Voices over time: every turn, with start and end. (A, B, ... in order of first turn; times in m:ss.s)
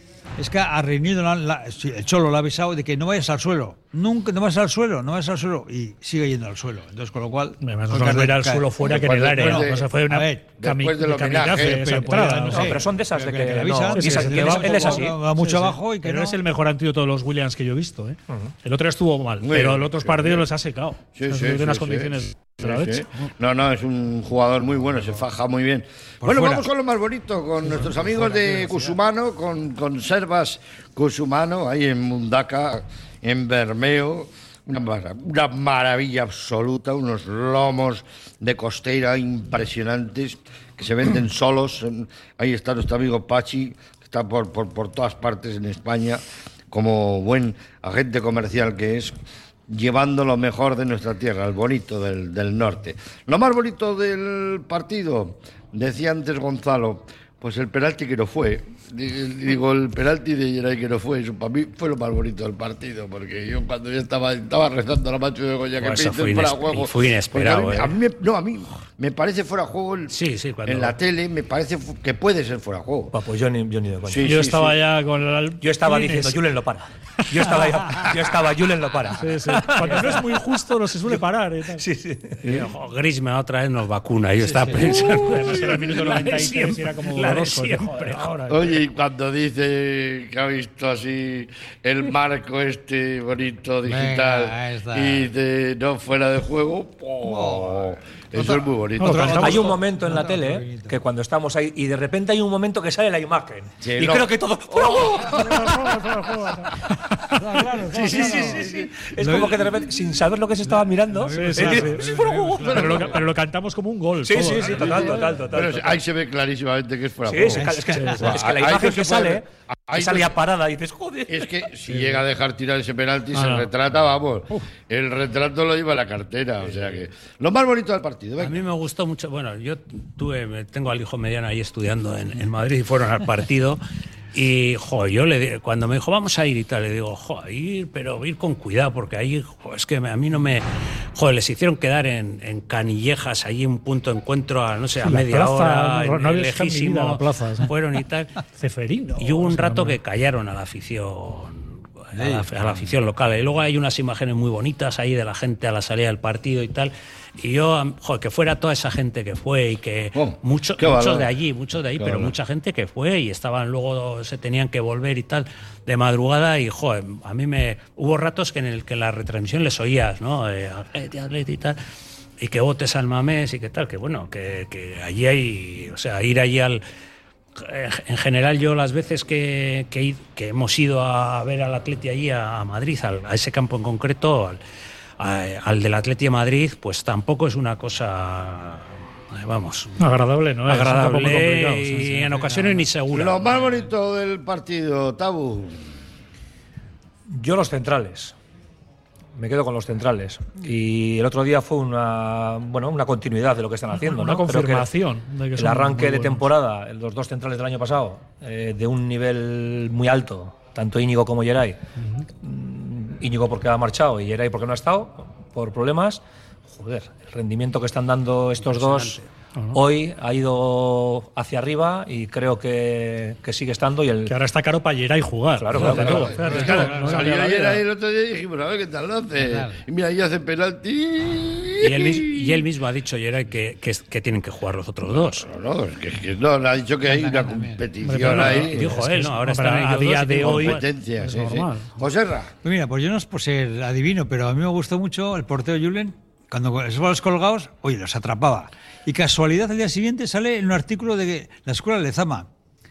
0:00.4-0:08.7 A
0:07.6-0:12.8 B
0:08.8-0:09.9 C
0:09.4-0:10.4 A
0:10.6-0:12.0 C
0:11.6-0:16.4 A
0:12.5-0:15.2 D
0:13.9-0:23.3 B
0:19.4-0:20.4 C
0:21.1-0:49.1 C
0:26.2-0:26.7 A
0:27.6-0:29.0 A
0:49.7-1:10.1 C
1:05.8-1:07.9 E
1:10.1-1:11.0 E
1:10.6-1:13.1 C
1:13.1-1:14.4 D
1:14.1-1:14.8 C
1:14.2-1:16.4 B
1:15.6-1:20.4 D
1:19.2-1:21.8 B
1:21.7-1:22.6 D
1:22.4-1:28.3 E
1:24.4-1:24.9 A
1:24.7-1:28.8 B
1:28.5-1:39.5 C
1:33.8-1:35.3 A
1:37.2-1:41.0 A
1:39.0-1:39.7 B
1:39.2-1:45.8 D
1:43.8-1:45.2 C
1:45.3-1:46.7 B
1:47.3-1:49.9 A
1:47.8-1:53.2 D
1:51.1-1:53.1 A
1:51.3-1:52.1 B
1:52.6-1:55.3 B
1:54.2-1:56.0 D
1:54.7-2:00.4 C
1:57.2-2:01.7 D
1:57.5-1:58.4 A
1:58.0-1:58.3 B
2:01.3-2:08.6 C
2:03.3-2:03.7 B
2:08.4-2:13.8 E
2:14.3-2:20.6 E
2:21.2-2:28.4 E
2:25.0-2:27.7 B
2:28.6-2:30.0 B
2:29.2-2:51.8 E
2:32.1-2:32.7 A
2:40.1-2:41.3 C
2:42.0-2:42.3 C
2:52.4-2:56.8 E
2:57.6-3:04.6 E
3:05.2-3:10.0 E
3:10.0-3:12.7 B
3:10.7-3:13.4 E
3:13.1-3:15.8 C
3:17.3-3:18.3 D
3:19.4-3:24.9 D
3:23.9-3:26.5 B
3:25.6-3:31.8 D
3:32.4-3:39.2 D
3:38.6-3:39.2 E
3:39.7-3:44.3 D
3:44.3-3:47.8 B
3:45.6-3:46.7 D
3:45.8-3:52.6 C
3:46.3-3:47.3 A
3:49.3-3:49.8 A
3:51.8-3:55.5 E
3:55.1-3:58.9 C
3:57.0-3:57.9 A
3:58.0-4:01.9 B
3:58.5-4:00.8 E
4:00.4-4:02.5 C
4:02.6-4:12.5 A